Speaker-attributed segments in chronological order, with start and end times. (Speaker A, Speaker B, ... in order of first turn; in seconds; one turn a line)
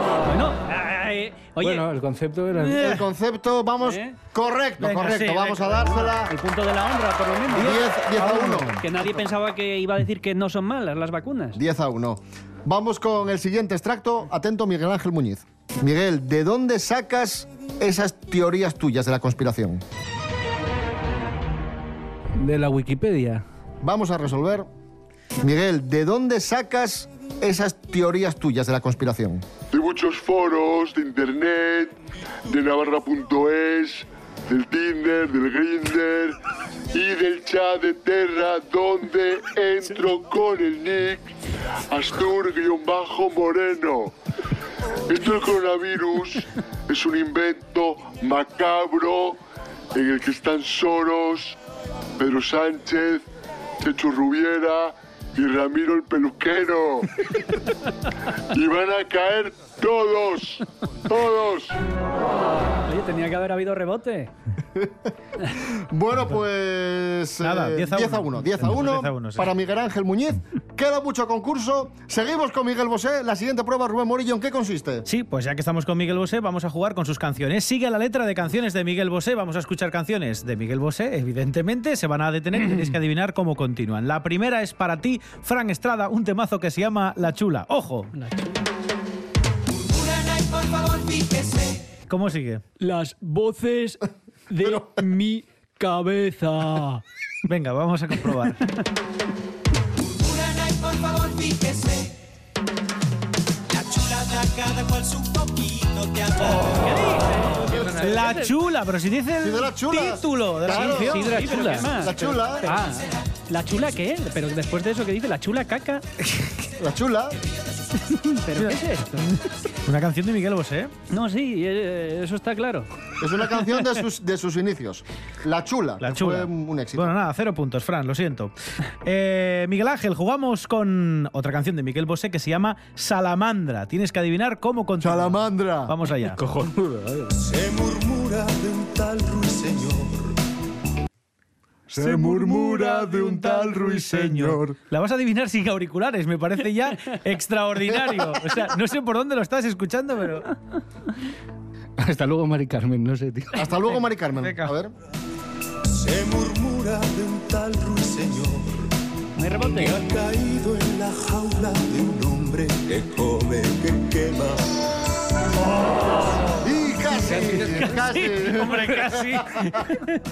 Speaker A: 0.2-1.9
Speaker B: 1.6-2.9
Speaker C: 2.7-3.0
Speaker D: 2.8-6.3
Speaker A: 3.8-4.2
Speaker C: 4.8-5.9
Speaker A: 6.0-7.8
Speaker D: 7.5-8.8
Speaker C: 7.6-8.8
Speaker A: 8.8-11.6
Speaker D: 11.6-19.8
Speaker B: 22.3-23.4
Speaker D: 23.8-24.7
Speaker D: 25.4-29.4
Speaker E: 29.7-31.9
Speaker E: 32.5-36.4
Speaker E: 36.9-41.3
Speaker E: 41.9-44.1
Speaker E: 45.1-49.4
Speaker E: 49.9-51.6
Speaker E: 52.2-53.2
Speaker E: 53.8-57.1
Speaker E: 58.5-61.8
Speaker A: 62.8-64.3
Speaker D: 64.7-65.1
Speaker D: 65.6-75.1
Speaker C: 67.4-69.5
Speaker C: 75.1-88.1
Speaker A: 88.1-88.6
Speaker C: 92.1-92.6
Speaker A: 92.8-97.0
Speaker C: 97.4-98.7
Speaker C: 103.8-104.9
Speaker C: 106.1-107.2
Speaker A: 106.9-108.5
Speaker B: 107.6-108.3
Speaker C: 108.0-112.0
Speaker D: 109.4-112.7
Speaker A: 110.7-116.0
Speaker D: 116.7-117.4
Speaker A: 118.1-119.3
Speaker C: 118.5-120.9
Speaker A: 121.1-122.9
Speaker D: 123.2-127.1
Speaker C: 126.0-136.4
Speaker D: 135.0-135.9
Speaker B: 136.3-137.4
Speaker F: 137.3-140.3
Speaker D: 141.9-144.8
Speaker C: 141.9-150.5
Speaker B: 152.0-153.7
Speaker D: 153.6-154.9
Speaker C: 154.3-154.7
Speaker F: 155.9-158.8
Speaker A: 159.4-160.0
Speaker F: 159.6-164.8
Speaker D: 166.6-169.5
Speaker B: 167.2-168.0
Speaker C: 167.7-170.1